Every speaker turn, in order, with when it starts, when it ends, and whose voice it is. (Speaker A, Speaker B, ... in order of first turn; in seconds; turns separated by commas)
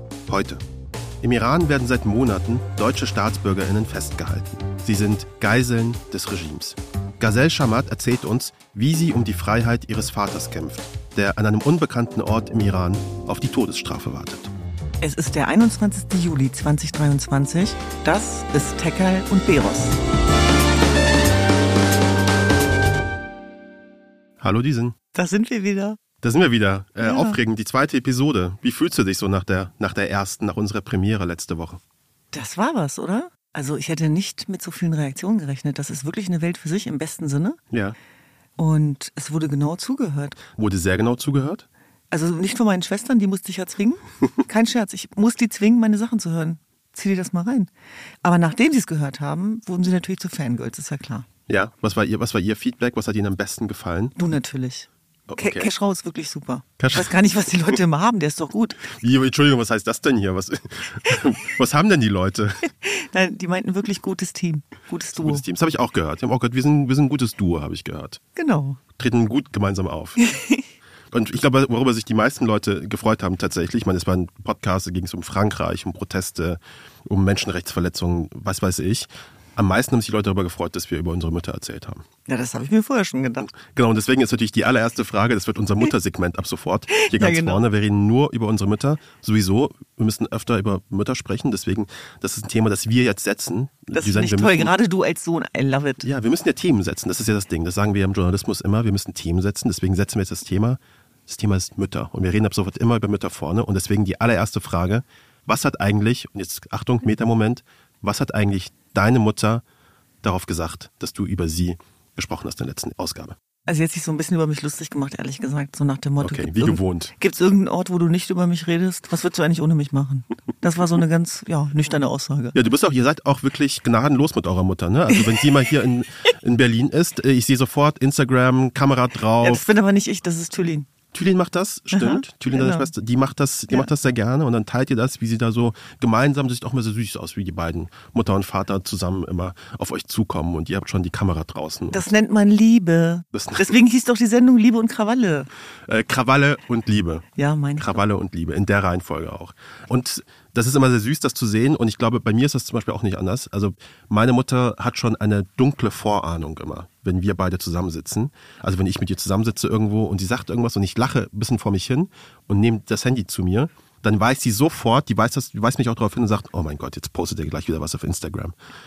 Speaker A: 0.3-0.6, Speaker A: 1.2-14.5, Speaker B: 15.0-20.0, Speaker A: 24.4-24.9, Speaker B: 25.1-26.0, Speaker A: 26.2-31.8, Speaker B: 27.0-27.4, Speaker B: 32.3-37.6, Speaker A: 37.7-38.0, Speaker B: 38.6-40.4, Speaker A: 40.6-41.7, Speaker B: 42.1-47.7, Speaker B: 48.2-51.3, Speaker A: 51.5-54.1, Speaker B: 54.2-58.8, Speaker A: 55.3-55.7, Speaker A: 56.8-57.1, Speaker A: 58.9-62.6, Speaker B: 62.7-65.4, Speaker A: 65.1-68.2, Speaker B: 68.3-68.8, Speaker A: 69.0-70.3, Speaker B: 70.2-70.6, Speaker A: 71.1-82.0, Speaker B: 82.3-83.5, Speaker A: 83.6-94.7, Speaker B: 87.0-87.6, Speaker B: 93.9-96.1, Speaker A: 96.0-109.6, Speaker A: 110.2-113.4, Speaker B: 113.7-122.6, Speaker A: 116.2-117.1, Speaker A: 122.5-129.6, Speaker B: 125.1-125.4, Speaker B: 129.4-130.9, Speaker A: 131.1-142.1, Speaker B: 131.9-132.9, Speaker B: 141.9-145.5, Speaker A: 143.3-143.7, Speaker A: 145.9-147.3, Speaker B: 147.4-148.0, Speaker A: 147.8-168.6